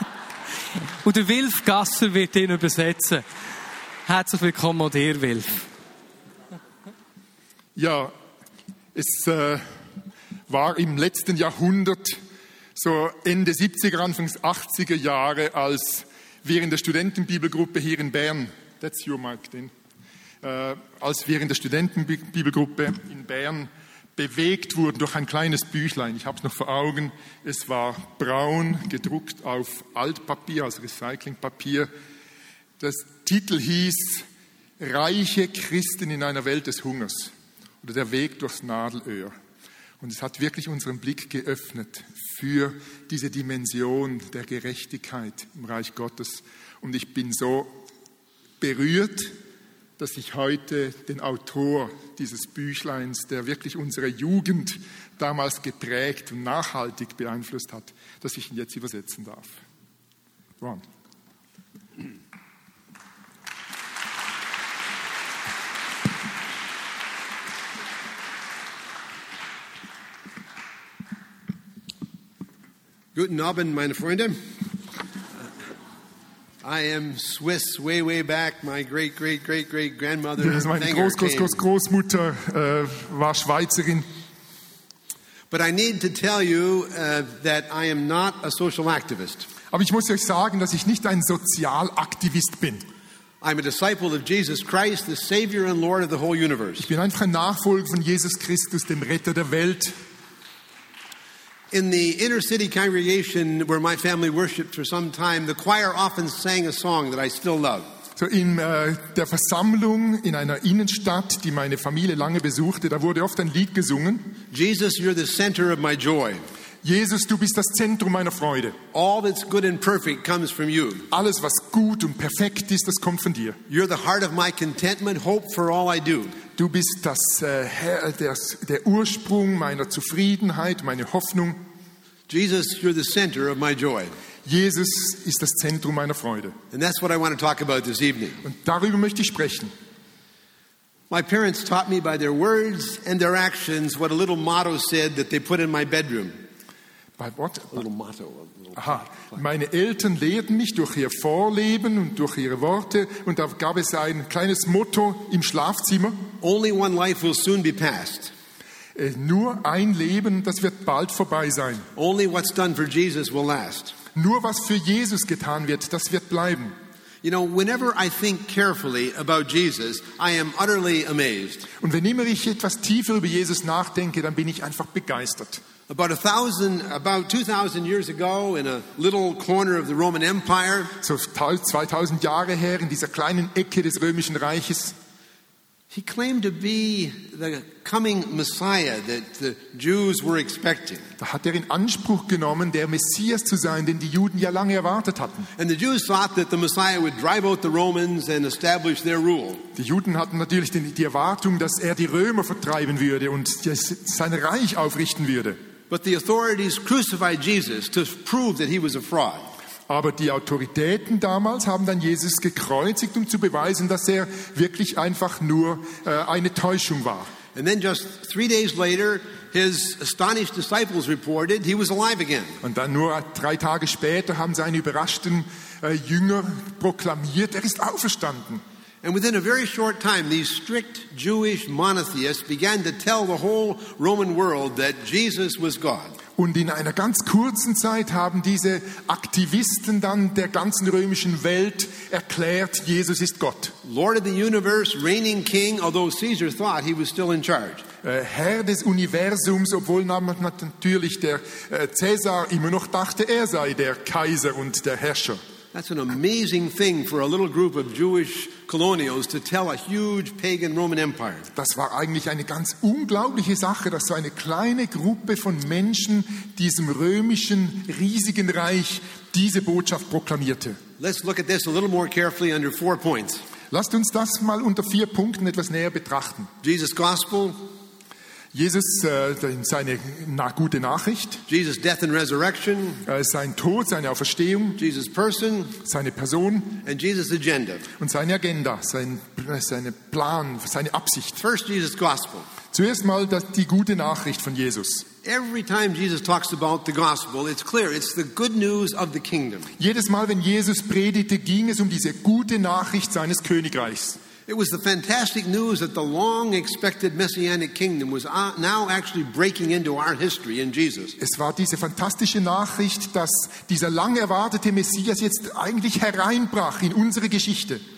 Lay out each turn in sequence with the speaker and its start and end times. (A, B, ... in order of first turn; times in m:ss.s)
0:01.0-0:03.2 A
0:04.0-0:05.6 A
0:07.8-0:08.1 B
0:08.9-0:09.6 B
0:10.5-0:12.2 B
0:12.7-0:19.7 B
0:20.4-0:31.9 B
0:32.8-0:34.3 B
0:34.8-0:39.3 B
0:40.0-0:47.8 B
0:48.6-0:49.4 B
0:50.0-0:59.6 B
1:13.1-1:14.4 C
1:16.6-1:21.6 C
1:20.4-1:24.0 B
1:25.5-1:29.5 C
1:29.7-1:32.8 B
1:33.4-1:36.9 C
1:36.8-1:39.9 B
1:41.7-1:47.9 C
1:48.2-1:54.4 B
1:54.5-1:56.4 C
1:56.8-1:58.8 B
1:58.9-2:01.1 C
2:01.1-2:03.6 B
2:03.7-2:06.4 C
2:06.6-2:11.6 B
2:12.3-2:14.1 C
2:14.4-2:16.6 B
2:16.7-2:18.4 C
2:18.4-2:19.7 B
2:21.1-2:26.4 C
2:27.2-2:27.8 B
2:27.7-2:29.4 C
2:28.8-2:36.2 B
2:36.4-2:38.3 C
2:38.9-2:41.9 B
2:42.0-2:44.0 C
2:44.1-2:46.7 B
2:47.2-2:51.7 C
2:51.8-2:55.6 B
2:55.9-3:00.9 C
3:01.0-3:05.0 B
3:05.9-3:11.0 C
3:11.2-3:15.5 B
3:15.6-3:19.6 C
3:19.7-3:25.6 B
3:25.9-3:29.5 C
3:29.9-3:37.3 B
3:37.5-3:42.6 C
3:42.6-3:48.6 B
3:49.0-3:56.2 C
3:56.4-4:03.7 B
4:03.8-4:07.8 C
4:08.0-4:15.4 B
4:15.7-4:21.5 C
4:21.5-4:30.8 B
4:31.0-4:33.4 C
4:33.7-4:36.5 B
4:36.6-4:37.6 C
4:38.5-4:41.4 B
4:41.5-4:43.0 C
4:43.0-4:44.8 B
4:44.8-4:45.8 C
4:45.8-4:46.8 B
4:46.8-4:47.9 C
4:48.0-4:51.4 B
4:51.4-4:52.5 C
4:52.7-4:55.0 B
4:55.2-4:59.7 C
4:59.8-5:04.2 B
5:04.5-5:11.2 C
5:11.2-5:17.8 B